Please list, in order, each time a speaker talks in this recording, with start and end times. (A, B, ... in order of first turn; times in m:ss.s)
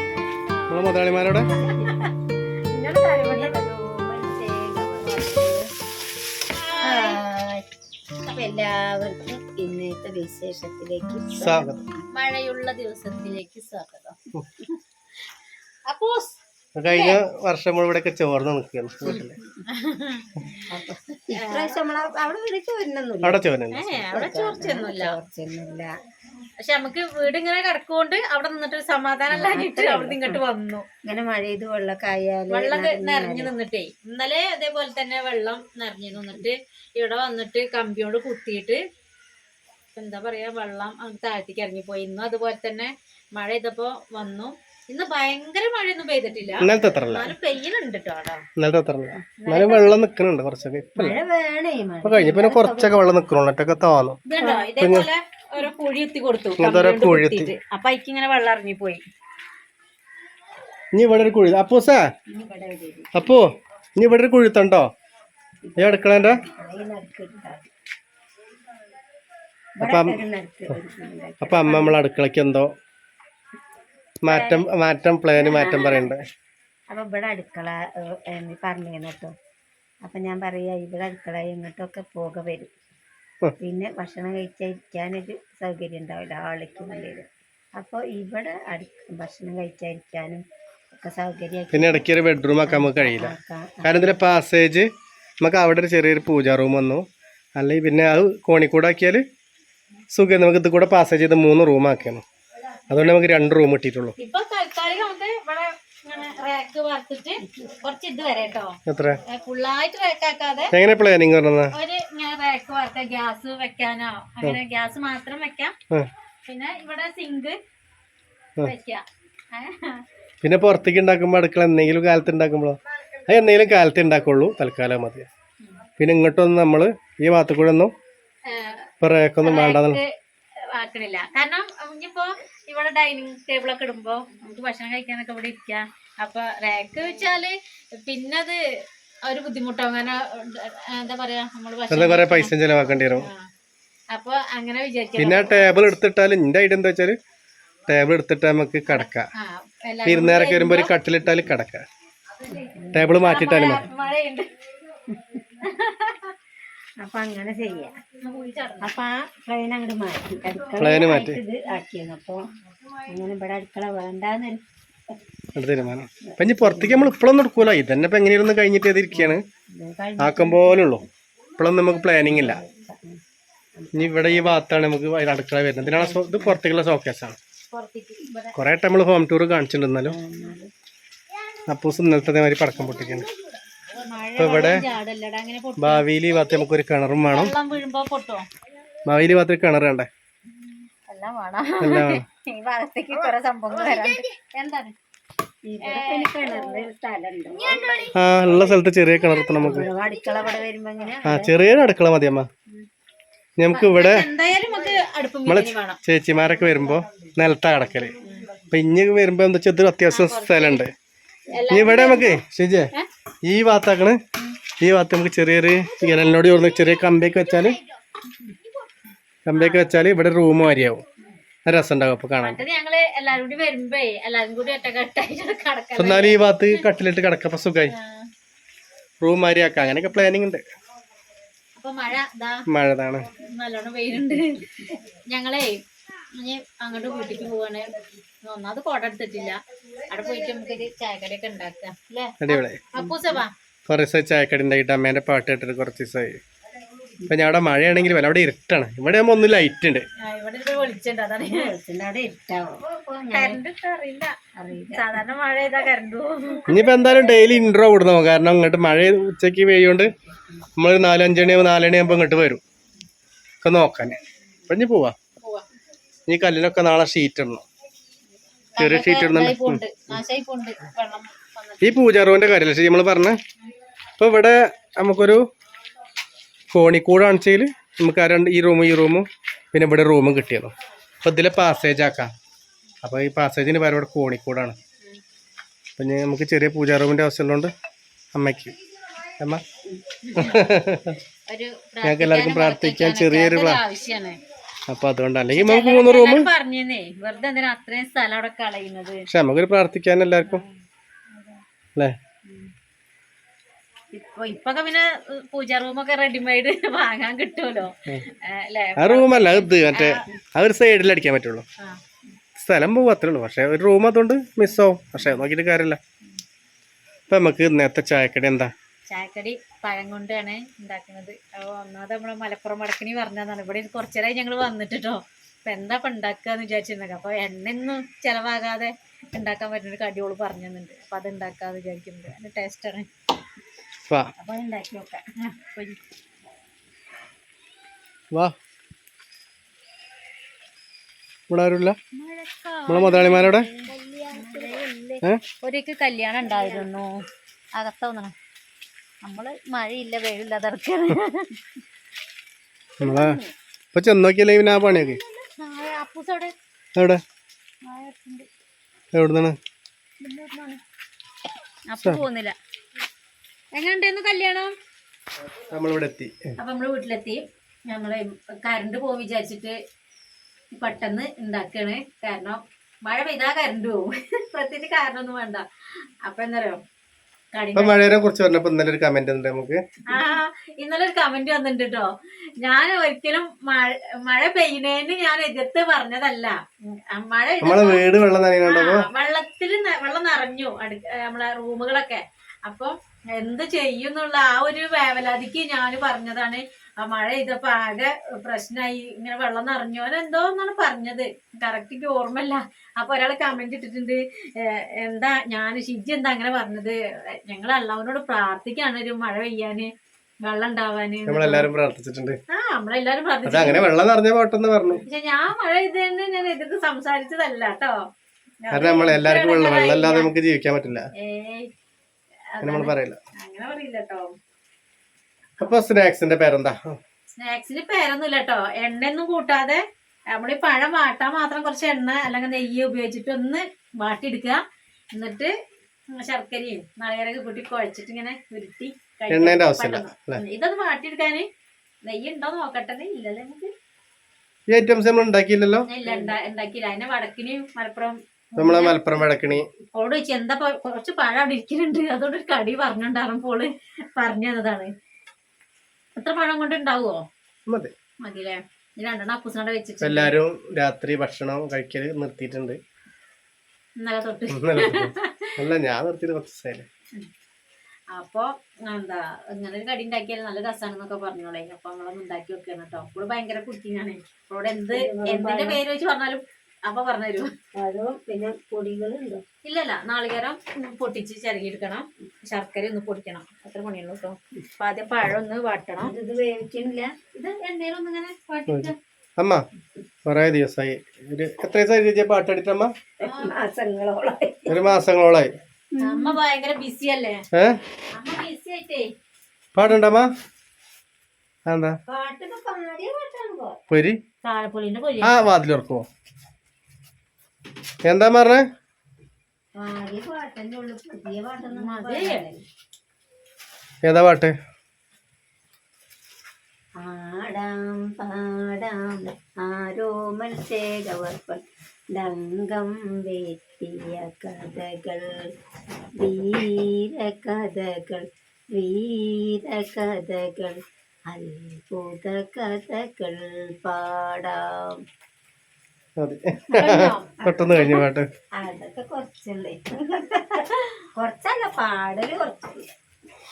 0:00.7-0:01.5 A
0:01.5-0:02.1 B
0:02.7-0:03.6 C
0:03.3-0:05.7 B
0:06.6-0:07.2 C
0:06.8-0:07.6 B
0:08.2-0:11.7 B
0:11.4-0:11.8 A
0:12.1-0:14.2 C
0:15.9-0:17.2 C
0:16.8-0:19.4 A
0:19.7-0:20.6 C
0:20.7-0:23.4 B
0:21.3-0:21.8 C
0:23.2-0:24.0 A
0:23.7-0:25.2 C
0:24.0-0:25.9 B
0:26.6-0:30.9 C
0:29.3-0:30.4 B
0:31.0-0:33.5 B
0:32.5-0:38.8 C
0:40.0-0:48.5 C
0:46.6-0:47.3 A
0:48.6-0:51.2 A
0:49.4-0:50.0 C
0:51.0-0:53.0 B
0:52.0-0:54.2 A
0:54.2-0:59.0 C
0:54.4-0:54.7 B
0:54.8-0:55.1 A
0:56.6-0:57.5 A
1:00.9-1:02.1 A
1:02.3-1:03.3 B
1:03.2-1:04.9 A
1:05.6-1:07.7 B
1:05.8-1:06.4 A
1:09.8-1:12.0 B
1:09.8-1:10.2 A
1:11.4-1:12.7 A
1:14.2-1:16.2 A
1:14.3-1:14.6 C
1:15.4-1:16.1 C
1:15.6-1:15.9 B
1:16.9-1:19.4 B
1:20.0-1:22.7 B
1:23.6-1:32.1 B
1:31.7-1:34.9 A
1:32.7-1:34.1 B
1:35.4-1:39.2 A
1:40.1-1:42.2 A
1:42.9-1:44.2 A
1:44.2-1:50.7 C
1:48.9-1:49.2 A
1:50.7-1:51.7 A
1:51.7-1:55.8 C
1:56.5-1:57.6 C
1:58.6-2:00.0 C
2:00.4-2:05.3 A
2:06.0-2:07.9 A
2:08.5-2:08.9 C
2:09.0-2:10.0 A
2:09.4-2:18.6 C
2:19.2-2:22.5 C
2:21.9-2:23.3 A
2:23.2-2:23.5 C
2:24.1-2:25.8 C
2:25.2-2:27.2 A
2:27.9-2:29.3 A
2:28.9-2:30.9 C
2:30.1-2:31.9 A
2:32.5-2:34.5 C
2:32.6-2:33.2 B
2:32.9-2:33.8 A
2:35.1-2:35.4 B
2:35.6-2:36.4 C
2:37.0-2:38.0 B
2:38.2-2:39.0 C
2:38.8-2:42.5 B
2:40.8-2:41.4 A
2:43.1-2:45.2 B
2:45.6-2:49.4 A
2:46.2-2:47.1 B
2:49.1-2:51.0 B
2:50.2-2:51.0 A
2:51.6-2:52.6 A
2:52.2-2:53.2 B
2:53.8-2:54.6 B
2:53.9-2:57.4 A
2:55.9-2:56.6 B
2:57.7-2:58.6 C
2:58.6-3:00.2 A
3:00.1-3:00.7 B
3:01.7-3:03.3 A
3:03.9-3:06.0 C
3:04.4-3:04.8 A
3:05.8-3:07.5 A
3:07.3-3:08.5 C
3:09.0-3:10.1 A
3:11.1-3:15.0 C
3:11.8-3:12.2 A
3:15.6-3:18.1 B
3:15.8-3:16.9 C
3:17.6-3:18.1 C
3:18.1-3:19.9 A
3:19.6-3:21.5 B
3:21.2-3:22.5 A
3:23.6-3:24.3 A
3:23.7-3:26.0 C
3:25.5-3:28.2 A
3:28.7-3:30.9 A
3:30.1-3:30.9 C
3:31.5-3:32.4 C
3:31.7-3:32.9 A
3:33.4-3:34.2 A
3:34.8-3:37.8 A
3:39.5-3:41.0 A
3:39.6-3:39.8 C
3:41.7-3:42.6 A
3:42.4-3:46.8 C
3:46.0-3:47.9 A
3:47.9-3:48.3 C
3:49.2-3:50.6 A
3:51.8-3:52.7 C
3:52.7-3:53.3 A
3:53.4-3:54.7 C
3:54.6-3:55.0 B
3:55.3-3:57.9 C
3:58.4-4:03.5 C
4:02.4-4:02.9 A
4:03.9-4:06.4 A
4:07.3-4:10.1 A
4:10.2-4:11.7 C
4:11.4-4:13.6 B
4:13.3-4:14.4 C
4:14.6-4:15.0 B
4:14.9-4:16.7 C
4:16.7-4:20.1 A
4:20.8-4:22.6 A
4:23.6-4:25.2 A
4:25.4-4:25.6 C
4:26.3-4:27.6 A
4:28.8-4:32.0 C
4:28.8-4:29.8 A
4:31.8-4:33.4 A
4:34.2-4:35.5 A
4:36.7-4:42.3 A
4:43.0-4:44.8 A
4:46.0-4:47.7 A
4:48.3-4:48.8 A
4:50.2-4:50.7 C
4:50.4-4:51.2 A
4:51.5-4:54.4 C
4:52.0-4:53.8 A
4:54.9-4:56.5 A
4:55.5-4:59.3 C
4:59.3-5:00.6 A
5:00.5-5:00.8 C
5:01.3-5:01.6 C
5:04.1-5:10.3 C
5:09.0-5:11.7 A
5:12.6-5:16.0 A
5:17.3-5:18.7 A
5:19.1-5:33.1 C
5:34.4-5:35.2 B
5:35.4-5:36.0 C
5:41.5-5:42.0 A
5:42.1-5:43.8 C
5:42.9-5:43.7 A
5:43.8-5:44.9 B
5:44.3-5:48.4 C
5:46.4-5:46.9 B
5:49.2-5:51.6 C
5:53.0-5:53.4 A
5:53.0-5:53.4 C
5:53.9-5:55.2 A
5:55.4-5:56.6 C
5:57.0-5:57.2 A
5:57.8-5:58.5 C
5:59.1-5:59.6 A
6:00.2-6:00.8 C
6:01.9-6:02.6 C
6:03.7-6:04.8 C
6:05.7-6:06.5 A
6:06.6-6:09.8 C
6:10.8-6:15.6 C
6:16.2-6:16.8 C
6:17.5-6:18.0 C
6:17.8-6:19.8 A
6:20.1-6:28.0 C
6:27.6-6:29.1 A
6:28.6-6:49.9 C
6:50.4-6:51.7 C
6:51.3-6:52.4 A
6:52.5-6:53.9 C
6:53.5-6:55.0 A
6:55.0-6:58.1 C
6:58.6-7:00.3 C
6:58.7-7:01.1 A
7:01.1-7:01.7 C
7:02.5-7:04.3 C
7:02.6-7:03.2 A
7:05.6-7:07.0 A
7:07.4-7:14.6 C
7:15.1-7:15.6 C
7:16.1-7:21.5 C
7:19.3-7:20.4 A
7:22.0-7:23.7 C
7:24.7-7:25.9 A
7:25.9-7:29.0 C
7:26.0-7:26.4 B
7:28.6-7:29.7 A
7:29.9-7:34.9 C
7:36.2-7:37.2 C
7:37.7-7:37.9 A
7:38.2-7:40.4 C
7:40.0-7:42.8 A
7:44.0-7:45.6 C
7:44.5-7:46.9 A
7:48.1-7:57.5 C
7:54.9-7:55.8 B
7:57.8-7:59.4 B
7:59.6-8:06.2 C
8:06.0-8:07.1 B
8:07.3-8:09.0 C
8:08.7-8:09.6 A
8:10.3-8:12.9 A
8:13.2-8:13.5 C
8:13.2-8:14.8 B
8:14.7-8:15.5 A
8:15.9-8:16.4 B
8:16.0-8:17.4 C
8:17.5-8:17.8 A
8:18.1-8:19.1 C
8:19.8-8:20.3 A
8:21.7-8:22.0 A
8:22.1-8:23.8 B
8:23.9-8:24.2 A
8:24.4-8:25.3 C
8:25.2-8:26.0 A
8:28.0-8:28.7 A
8:29.8-8:32.6 B
8:31.7-8:32.4 C
8:34.0-8:34.5 A
8:37.0-8:45.5 B
8:46.2-8:55.0 B
8:56.2-8:58.3 A
8:56.7-8:57.3 C
8:57.4-8:58.0 B
8:58.6-9:02.9 B